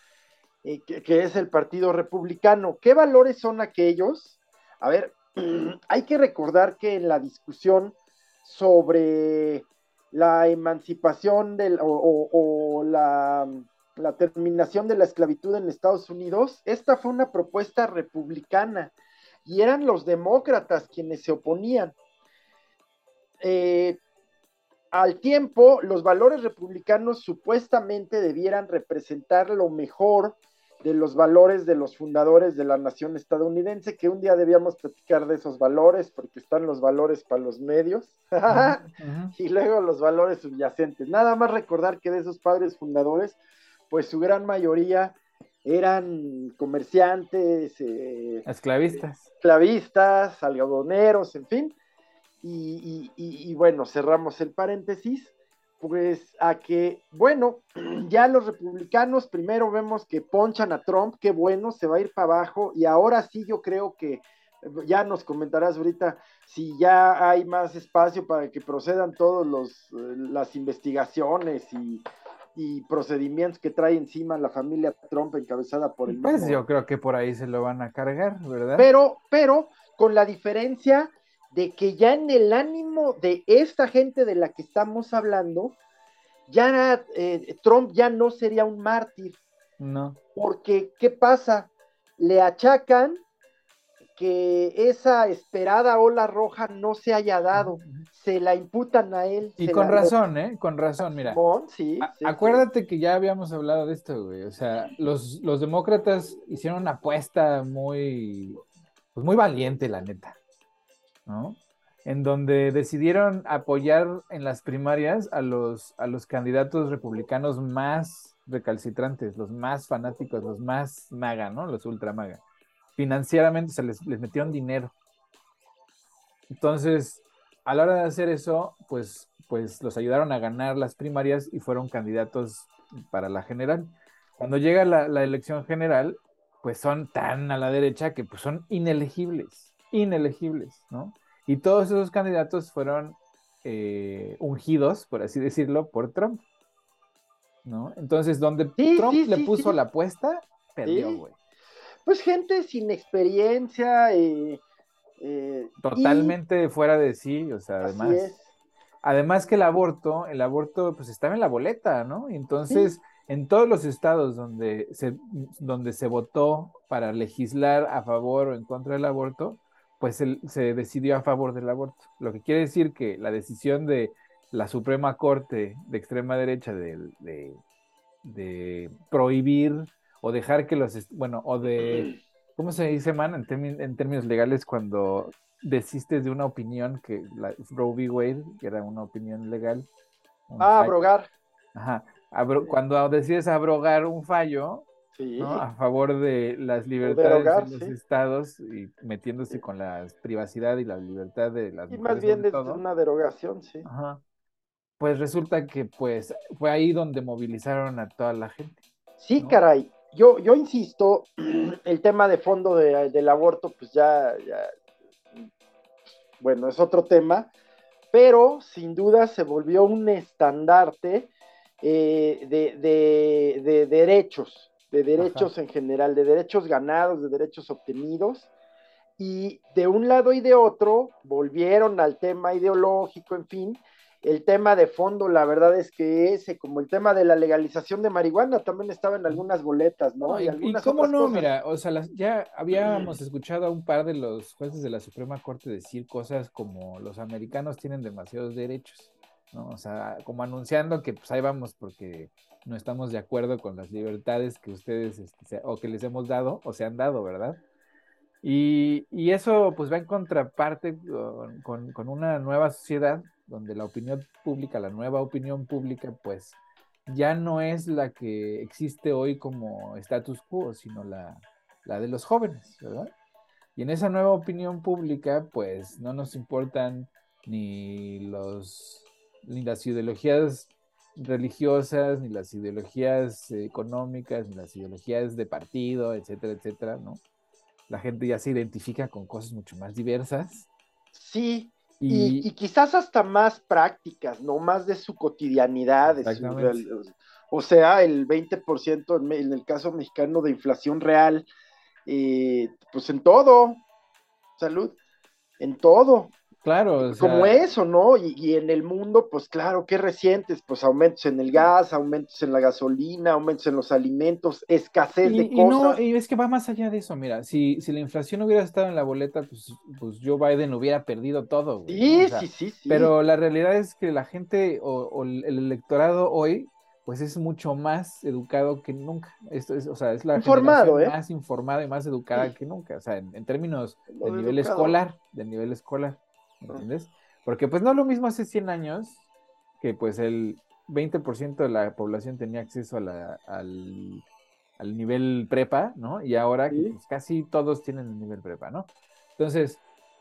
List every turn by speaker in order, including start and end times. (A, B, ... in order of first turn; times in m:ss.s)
0:00.6-0:18.9 A
0:19.5-0:22.0 A
0:23.4-0:24.0 A
0:24.9-0:43.4 A
0:38.5-0:39.3 B
0:43.9-0:48.5 A
0:48.5-0:49.2 B
0:49.4-0:51.7 A
0:52.4-1:12.0 A
1:12.6-1:16.6 A
1:16.1-1:18.9 B
1:18.8-1:25.8 A
1:26.5-1:29.4 A
1:29.8-1:30.2 B
1:30.4-1:33.2 A
1:34.2-1:40.2 A
1:37.5-1:38.1 B
1:39.6-1:41.4 B
1:41.0-1:42.7 A
1:42.0-1:48.6 B
1:49.2-1:50.4 B
1:51.3-2:02.4 B
2:03.0-2:05.0 B
2:06.5-2:26.4 B
2:27.6-2:31.3 B
2:28.8-2:29.8 A
2:30.9-2:31.2 A
2:32.1-2:34.6 A
2:35.2-2:36.4 A
2:35.8-2:38.3 B
2:37.8-2:38.4 A
2:39.0-2:57.6 B
2:42.7-2:43.0 A
2:58.2-3:09.9 B
3:10.5-3:11.1 B
3:10.6-3:11.3 A
3:11.8-3:14.9 B
3:15.2-3:15.7 A
3:15.4-3:22.8 B
3:17.0-3:17.9 A
3:21.9-3:23.8 A
3:23.8-3:24.2 B
3:25.0-3:28.8 B
3:29.2-3:34.7 A
3:36.4-3:37.5 A
3:38.1-3:41.3 A
3:41.8-3:48.5 A
3:45.2-3:45.5 B
3:49.2-4:01.5 A
4:00.2-4:17.6 B
4:02.7-4:03.1 A
4:18.4-4:33.1 B
4:33.8-4:47.2 B
4:47.9-4:50.7 B
4:51.1-5:01.5 A
4:52.0-4:52.5 B
4:56.1-4:56.8 B
5:02.1-5:03.8 A
5:04.6-5:05.0 A
5:05.6-5:06.3 A
5:06.6-5:07.6 B
5:07.0-5:16.0 A
5:15.2-5:39.2 B
5:21.9-5:23.1 A
5:30.4-5:31.2 A
5:34.1-5:35.0 A
5:39.8-5:44.2 B
5:44.8-5:49.8 B
5:46.7-5:47.0 A